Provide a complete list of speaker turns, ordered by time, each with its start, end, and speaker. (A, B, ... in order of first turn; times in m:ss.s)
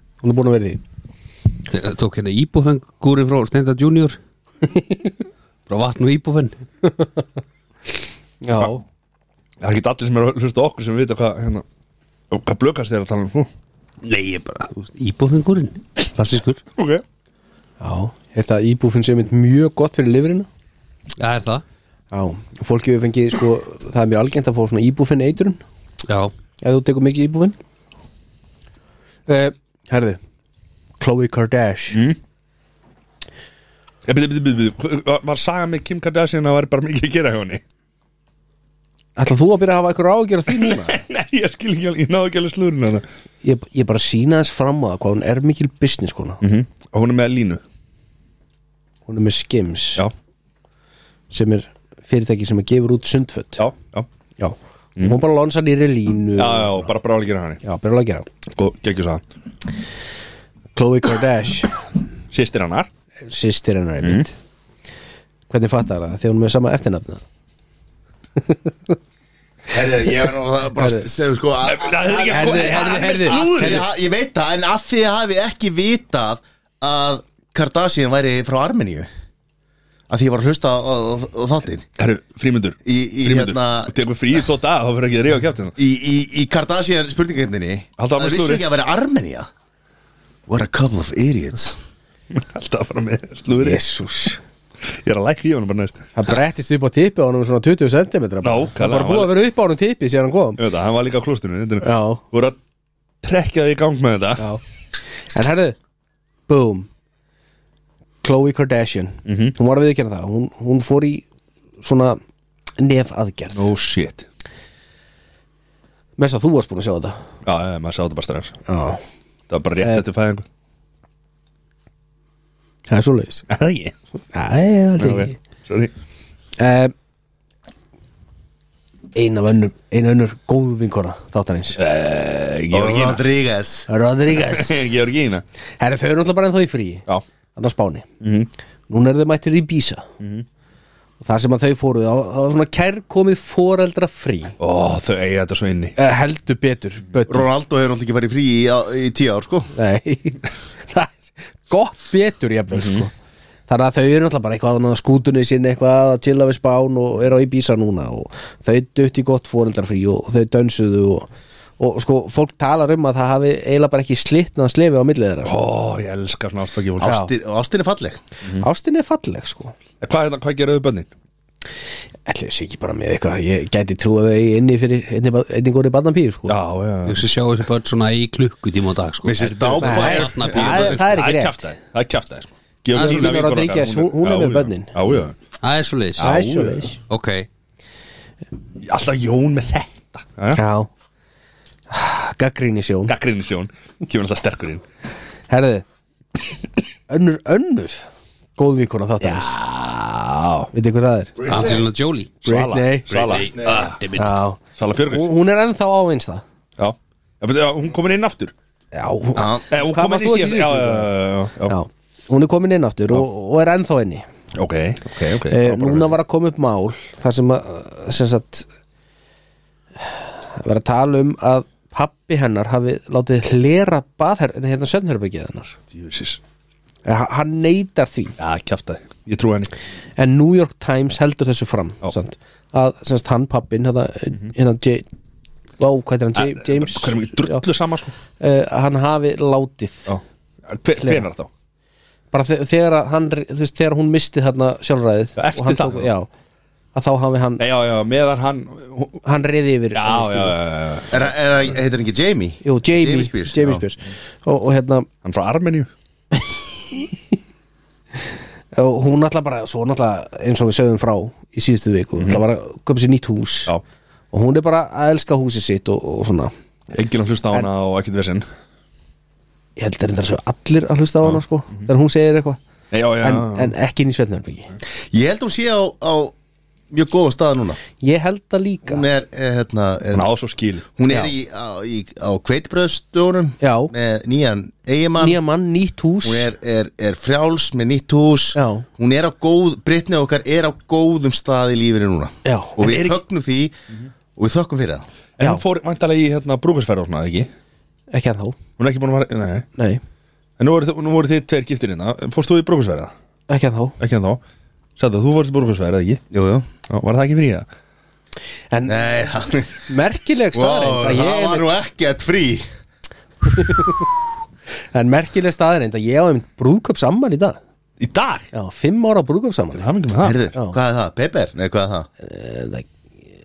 0:00.2-0:00.8 A
0:01.6-0:04.2 B
0:05.7-0:06.6 B
0:08.4-0:08.8 A
0:09.6-0:11.6 C
0:12.3-0:13.5 C
0:14.0-0:16.6 B
0:16.8-0:17.0 C
0:17.8-0:20.5 A
0:21.2-0:21.6 B
0:22.1-0:25.6 A
0:26.0-0:26.3 B
0:26.6-0:27.6 A
0:29.3-0:30.2 A
0:31.0-0:32.0 A
0:34.0-0:37.6 C
0:39.2-0:40.9 A
0:40.5-0:43.0 C
0:43.4-0:46.4 A
0:46.4-0:47.6 C
0:49.1-0:50.0 A
0:51.3-0:53.6 A
0:53.6-0:54.1 C
0:54.4-0:56.9 A
0:56.4-0:57.6 C
0:57.6-0:58.3 A
0:58.5-0:59.2 C
1:00.7-1:01.8 A
1:02.3-1:02.9 C
1:03.2-1:04.3 A
1:04.0-1:04.3 C
1:05.5-1:07.2 A
1:08.4-1:08.9 A
1:09.7-1:19.1 D
1:10.8-1:11.1 A
1:11.6-1:13.9 C
1:12.3-1:13.8 A
1:20.1-1:21.8 D
1:22.0-1:25.7 C
1:22.8-1:23.9 D
1:25.8-1:29.5 D
1:28.0-1:28.6 C
1:30.5-1:31.8 D
1:32.3-1:33.8 C
1:33.6-1:34.4 A
1:34.9-1:36.3 C
1:36.1-1:40.6 A
1:38.4-1:39.3 C
1:40.6-1:42.6 C
1:41.8-1:42.2 A
1:43.2-1:44.5 C
1:45.3-1:45.8 A
1:46.5-1:46.9 A
1:48.2-1:51.2 A
1:49.2-1:49.5 C
1:51.8-1:52.2 A
1:52.8-1:53.6 A
1:53.5-1:54.2 C
1:56.2-1:57.2 A
1:57.4-1:58.6 C
1:58.7-1:59.0 A
1:59.5-2:00.4 C
2:02.9-2:03.4 A
2:03.5-2:03.9 C
2:04.3-2:05.3 A
2:05.0-2:05.9 C
2:06.6-2:06.9 A
2:09.1-2:11.8 A
2:11.8-2:13.2 C
2:12.7-2:13.9 D
2:13.9-2:14.8 A
2:14.4-2:15.4 C
2:15.8-2:17.0 A
2:17.6-2:18.0 A
2:18.2-2:18.5 C
2:18.9-2:20.0 A
2:21.2-2:24.6 A
2:24.6-2:26.0 C
2:26.0-2:27.5 A
2:27.3-2:29.7 D
2:29.7-2:33.1 A
2:32.7-2:33.0 C
2:33.7-2:45.5 A
2:45.4-2:47.2 C
2:47.0-2:48.2 D
2:47.0-2:47.3 A
2:48.6-2:49.7 A
2:50.0-2:51.1 C
2:52.2-2:56.6 A
2:56.5-2:57.2 C
2:57.0-3:01.2 B
2:59.2-3:01.1 D
2:59.4-3:05.3 C
2:59.8-3:01.7 A
3:02.9-3:04.9 A
3:02.9-3:03.5 B
3:05.6-3:06.4 B
3:06.2-3:06.8 C
3:06.2-3:07.0 A
3:07.1-3:07.5 B
3:08.8-3:10.6 C
3:10.5-3:10.9 A
3:11.9-3:13.1 A
3:13.1-3:14.8 C
3:15.5-3:15.8 A
3:17.1-3:18.0 A
3:18.6-3:19.6 A
3:19.2-3:20.7 C
3:20.7-3:21.3 A
3:21.4-3:21.9 C
3:21.5-3:22.3 B
3:22.4-3:24.0 C
3:22.4-3:23.4 A
3:23.1-3:24.4 B
3:24.2-3:26.4 A
3:24.8-3:25.3 C
3:26.8-3:28.5 C
3:28.9-3:31.1 A
3:29.4-3:29.6 D
3:29.7-3:31.7 C
3:31.7-3:34.2 A
3:34.6-3:36.1 C
3:35.5-3:38.7 A
3:40.0-3:45.8 A
3:45.9-3:46.4 C
3:47.0-3:48.3 A
3:48.4-3:49.7 C
3:50.2-3:55.0 A
3:55.8-3:57.6 A
3:56.4-3:58.1 C
3:58.4-4:00.1 A
4:00.1-4:01.5 C
4:01.0-4:01.2 A
4:02.3-4:06.3 A
4:05.4-4:06.1 C
4:06.9-4:07.6 A
4:07.6-4:09.2 C
4:09.2-4:10.5 A
4:09.9-4:11.2 C
4:11.1-4:13.8 D
4:12.6-4:15.1 A
4:15.2-4:15.9 C
4:18.7-4:23.7 A
4:24.3-4:26.5 A
4:26.9-4:28.4 C
4:29.8-4:32.6 A
4:31.2-4:31.9 C
4:32.9-4:33.7 C
4:33.2-4:34.7 A
4:35.1-4:36.3 D
4:36.9-4:37.8 D
4:38.0-4:39.0 A
4:38.9-4:40.3 D
4:40.1-4:40.8 C
4:40.9-4:45.4 D
4:43.6-4:43.9 A
4:45.2-4:46.5 A
4:46.2-4:53.7 D
4:48.5-4:48.8 A
4:52.4-4:52.8 A
4:52.8-4:53.2 C
4:54.4-4:55.1 D
4:55.4-4:57.5 C
4:58.1-4:58.6 A
4:58.8-4:59.7 C
4:59.8-5:00.0 A
5:00.6-5:03.1 C
5:03.5-5:04.0 A
5:04.0-5:04.4 C
5:05.0-5:06.2 C
5:06.3-5:06.7 D
5:06.9-5:07.7 C
5:08.7-5:11.7 A
5:08.8-5:09.8 D
5:10.5-5:12.6 D
5:13.5-5:14.0 A
5:14.9-5:17.6 A
5:18.0-5:18.5 C
5:18.5-5:19.9 A
5:19.7-5:20.4 C
5:20.2-5:22.1 D
5:22.2-5:22.9 A